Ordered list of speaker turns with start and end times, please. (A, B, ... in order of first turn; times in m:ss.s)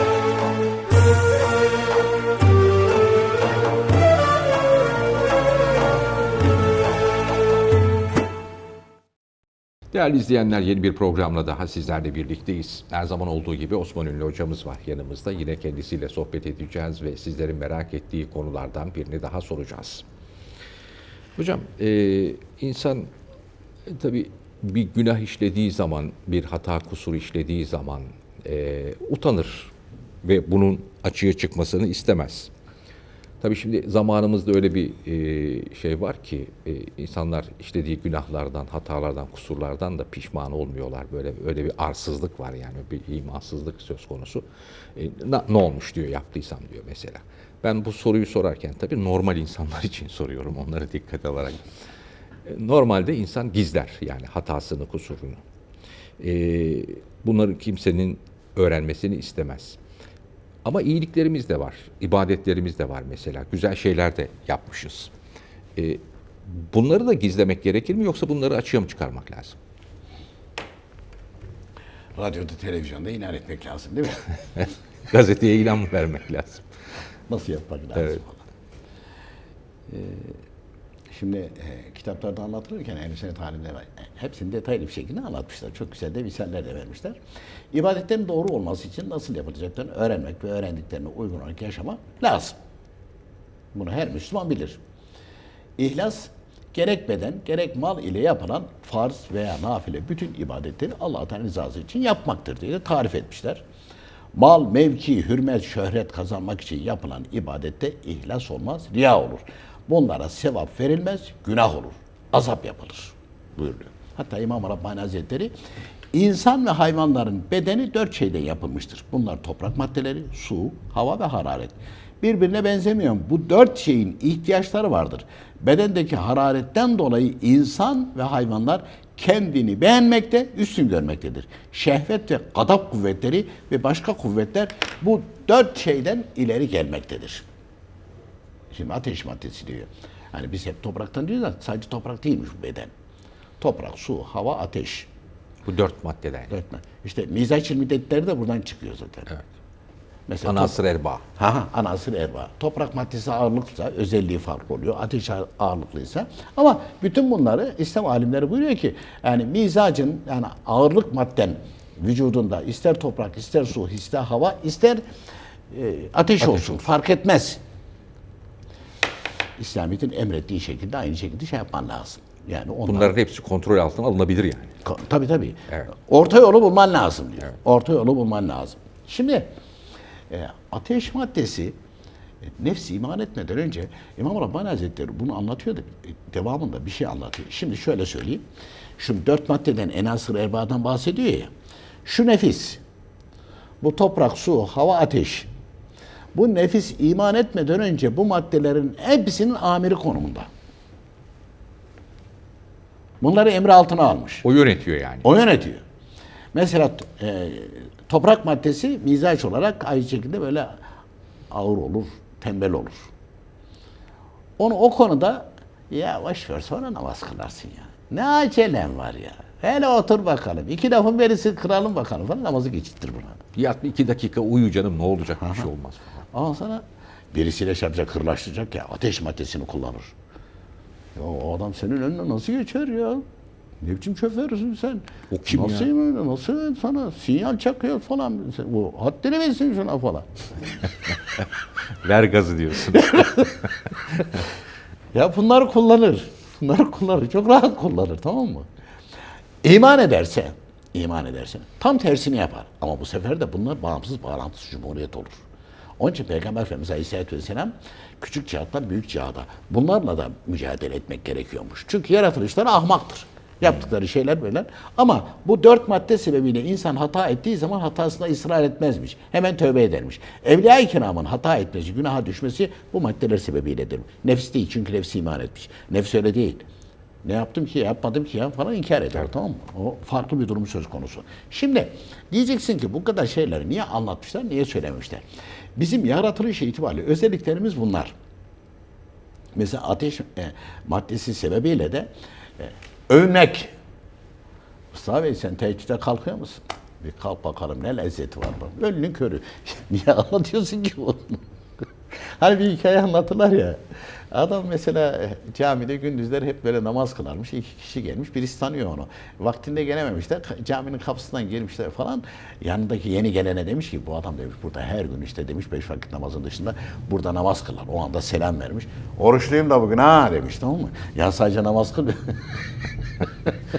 0:09.9-0:20.0 A
0:21.4-0:23.1 A
0:23.8-0:32.5 A
0:33.4-0:51.7 A
0:52.4-0:55.4 A
0:56.2-0:59.8 A
1:00.6-1:05.1 A
1:05.8-1:09.6 A
1:12.2-1:14.3 B
1:14.6-1:16.7 A
1:17.3-1:18.4 B
1:18.0-1:18.2 A
1:19.9-1:20.4 B
1:21.1-1:27.2 B
1:27.7-1:32.6 B
1:33.7-1:34.8 B
1:35.8-1:43.6 B
1:44.3-1:55.5 B
1:56.1-2:17.5 B
2:18.7-2:22.9 B
2:23.6-2:25.1 B
2:25.6-2:26.5 A
2:26.5-2:29.3 B
2:30.3-2:30.8 B
2:30.4-2:31.2 A
2:31.4-2:45.0 B
2:45.7-2:47.6 B
2:49.6-2:53.1 B
2:52.9-2:54.7 A
2:54.8-2:59.5 B
3:00.3-3:01.8 B
3:02.4-3:08.4 B
3:09.0-3:11.5 B
3:12.0-3:12.8 B
3:13.8-3:15.5 B
3:16.3-3:20.5 B
3:23.2-3:24.4 B
3:24.4-3:25.2 A
3:25.2-3:25.8 B
3:26.5-3:30.8 B
3:31.5-3:33.1 B
3:34.6-3:43.4 B
3:43.6-3:46.2 A
3:45.4-3:45.7 B
3:46.3-3:50.1 B
3:51.2-3:53.2 B
3:53.8-4:00.7 B
3:55.3-3:55.9 A
4:02.0-4:04.4 A
4:02.9-4:03.6 B
4:04.2-4:04.4 B
4:05.1-4:08.7 B
4:09.6-4:15.4 B
4:16.0-4:36.6 B
4:37.2-4:45.2 B
4:45.8-4:48.2 B
4:49.5-4:53.7 B
4:54.9-5:01.4 B
5:02.2-5:22.6 B